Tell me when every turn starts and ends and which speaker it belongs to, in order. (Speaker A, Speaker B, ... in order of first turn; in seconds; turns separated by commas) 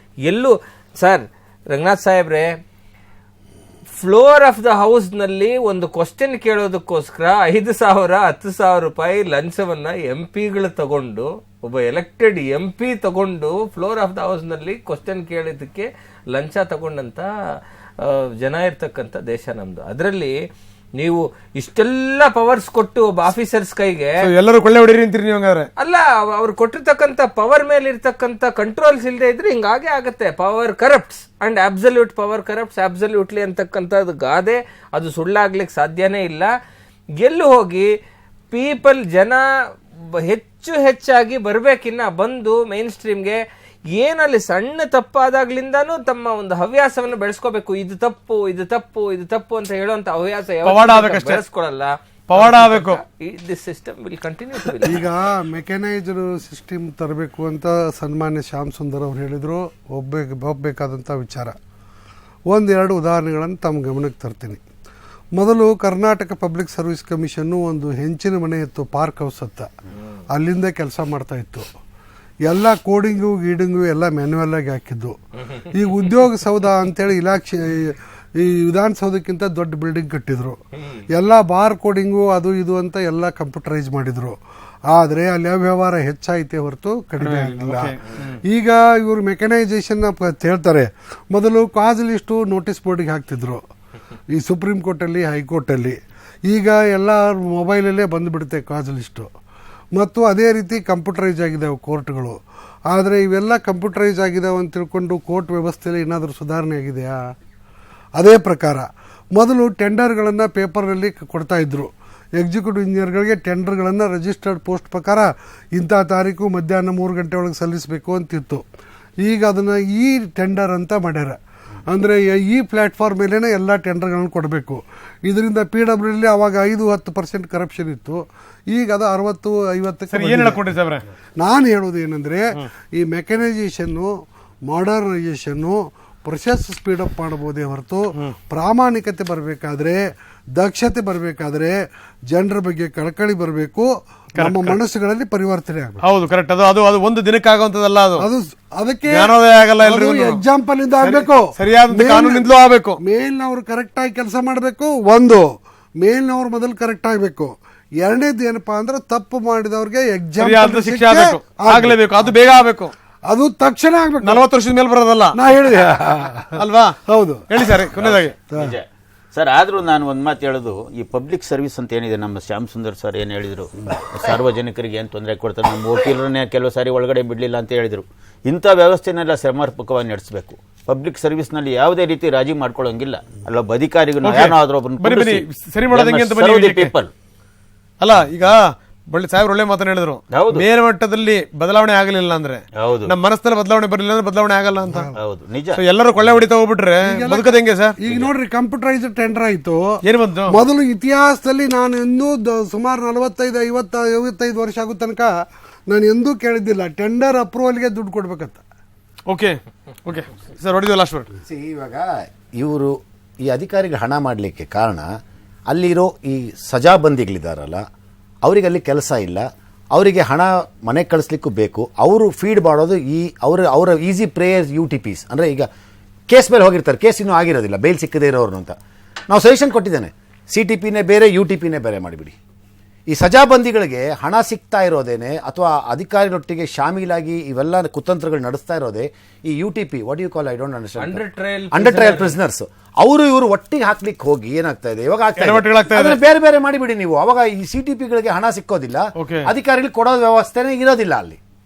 Speaker A: 0.3-2.5, Speaker A: 4.0-17.3, Speaker A: 18.0-20.3, Speaker A: 21.0-24.1, Speaker B: 24.2-25.7, Speaker A: 25.8-36.5, Speaker A: 37.2-37.9, Speaker A: 38.5-39.4, Speaker A: 40.1-55.1, Speaker B: 50.6-51.4, Speaker B: 52.3-53.0, Speaker C: 54.7-61.6, Speaker C: 62.5-64.6, Speaker C: 65.3-69.7, Speaker C: 70.3-71.7, Speaker C: 72.4-93.6, Speaker B: 87.2-88.4, Speaker C: 94.3-99.3, Speaker C: 99.9-107.2, Speaker C: 108.2-118.6, Speaker C: 119.2-130.8, Speaker B: 130.1-131.1, Speaker C: 131.4-134.1, Speaker C: 134.6-146.1, Speaker B: 144.3-144.8, Speaker B: 146.0-148.3, Speaker C: 148.2-162.5, Speaker B: 149.1-150.4, Speaker B: 151.0-153.0, Speaker B: 160.4-162.9, Speaker C: 163.3-164.5, Speaker B: 164.2-165.4, Speaker C: 165.3-167.7, Speaker B: 166.6-167.0, Speaker B: 167.5-168.4, Speaker D: 168.0-187.1, Speaker C: 168.4-168.8, Speaker B: 184.2-186.9, Speaker B: 188.0-195.1, Speaker D: 190.3-190.7, Speaker D: 192.8-193.1, Speaker C: 194.8-195.1, Speaker D: 195.1-196.3, Speaker B: 195.7-198.0, Speaker C: 197.0-205.3, Speaker B: 200.0-200.6, Speaker C: 205.9-208.6, Speaker B: 209.3-211.3, Speaker E: 211.4-215.1, Speaker E: 215.7-217.8, Speaker E: 218.4-225.7, Speaker E: 226.3-228.8, Speaker E: 229.3-232.3, Speaker E: 233.1-251.4, Speaker A: 241.0-242.4, Speaker B: 245.4-246.2, Speaker B: 249.2-249.5